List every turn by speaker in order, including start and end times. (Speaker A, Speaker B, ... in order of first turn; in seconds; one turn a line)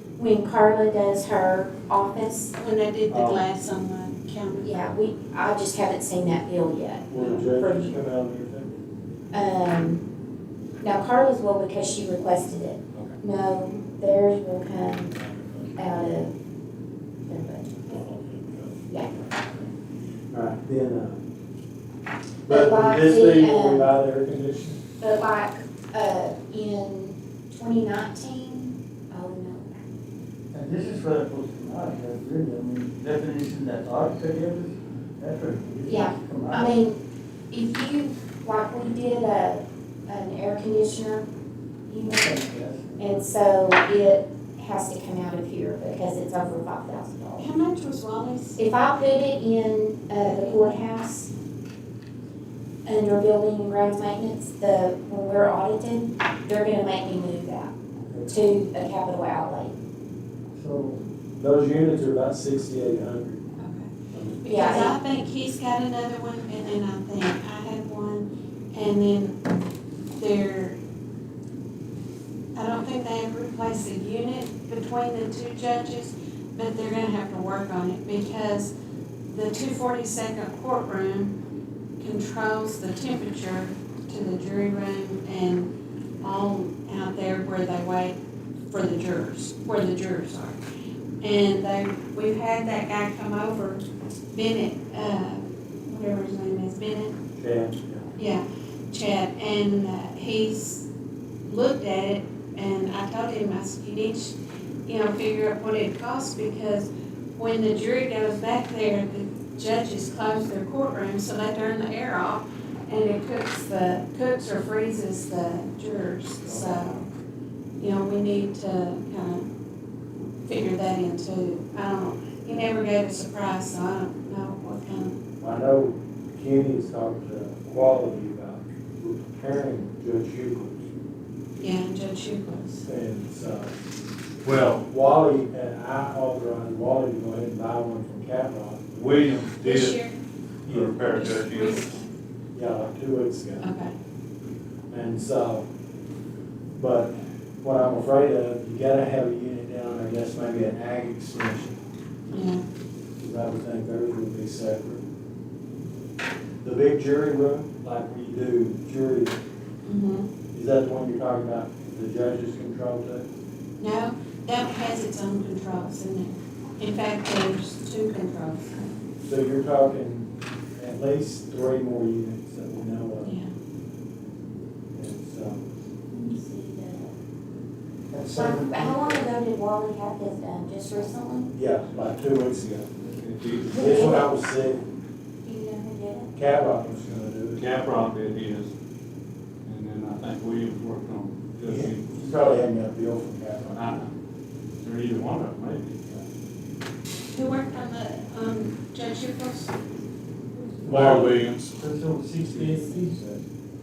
Speaker A: 0.2-2.5
Speaker B: 2.5-4.9
Speaker A: 3.1-3.4
Speaker A: 4.6-7.9
Speaker C: 7.1-8.8
Speaker A: 9.3-10.0
Speaker A: 10.8-15.2
Speaker C: 15.2-15.6
Speaker A: 15.8-16.3
Speaker A: 17.3-17.8
Speaker C: 17.8-19.7
Speaker C: 20.3-21.2
Speaker C: 22.5-24.8
Speaker A: 22.5-23.9
Speaker A: 25.0-29.8
Speaker D: 30.5-36.7
Speaker A: 35.9-37.0
Speaker A: 37.5-41.2
Speaker A: 41.9-42.3
Speaker D: 42.0-42.7
Speaker A: 43.0-47.4
Speaker B: 47.4-48.6
Speaker A: 48.6-51.3
Speaker B: 50.2-50.6
Speaker A: 52.8-57.7
Speaker A: 58.3-59.7
Speaker C: 60.6-63.4
Speaker B: 63.6-63.9
Speaker C: 64.1-64.4
Speaker B: 64.4-69.4
Speaker A: 64.4-64.9
Speaker B: 70.2-70.8
Speaker B: 72.5-78.7
Speaker B: 79.3-81.3
Speaker B: 82.0-88.2
Speaker B: 88.7-90.6
Speaker B: 91.2-97.2
Speaker C: 97.3-98.1
Speaker B: 98.2-100.9
Speaker B: 101.4-104.3
Speaker B: 104.8-117.0
Speaker C: 116.4-117.0
Speaker B: 117.8-119.5
Speaker B: 120.4-125.2
Speaker C: 125.4-130.9
Speaker B: 131.6-132.8
Speaker C: 132.8-133.7
Speaker C: 134.4-139.4
Speaker E: 139.0-140.0
Speaker B: 139.6-140.2
Speaker C: 140.7-141.0
Speaker E: 140.7-141.9
Speaker B: 141.0-142.1
Speaker C: 142.5-143.7
Speaker B: 143.6-143.9
Speaker C: 144.9-145.6
Speaker C: 146.8-151.8
Speaker B: 152.3-152.6
Speaker C: 153.2-155.0
Speaker C: 156.6-159.4
Speaker B: 159.8-160.3
Speaker C: 160.5-163.2
Speaker B: 163.8-168.8
Speaker C: 169.2-173.3
Speaker B: 173.2-173.5
Speaker C: 174.9-175.6
Speaker A: 176.1-177.1
Speaker C: 178.1-178.9
Speaker A: 178.2-181.5
Speaker D: 178.5-178.9
Speaker C: 181.5-183.0
Speaker E: 183.1-183.9
Speaker C: 183.7-184.8
Speaker A: 183.7-184.3
Speaker A: 185.4-186.3
Speaker C: 186.3-187.6
Speaker E: 187.6-188.7
Speaker E: 189.6-192.1
Speaker C: 191.6-193.9
Speaker E: 193.6-194.1
Speaker E: 194.8-196.2
Speaker B: 197.3-199.8
Speaker C: 200.8-201.3
Speaker E: 200.8-201.9
Speaker D: 201.0-203.4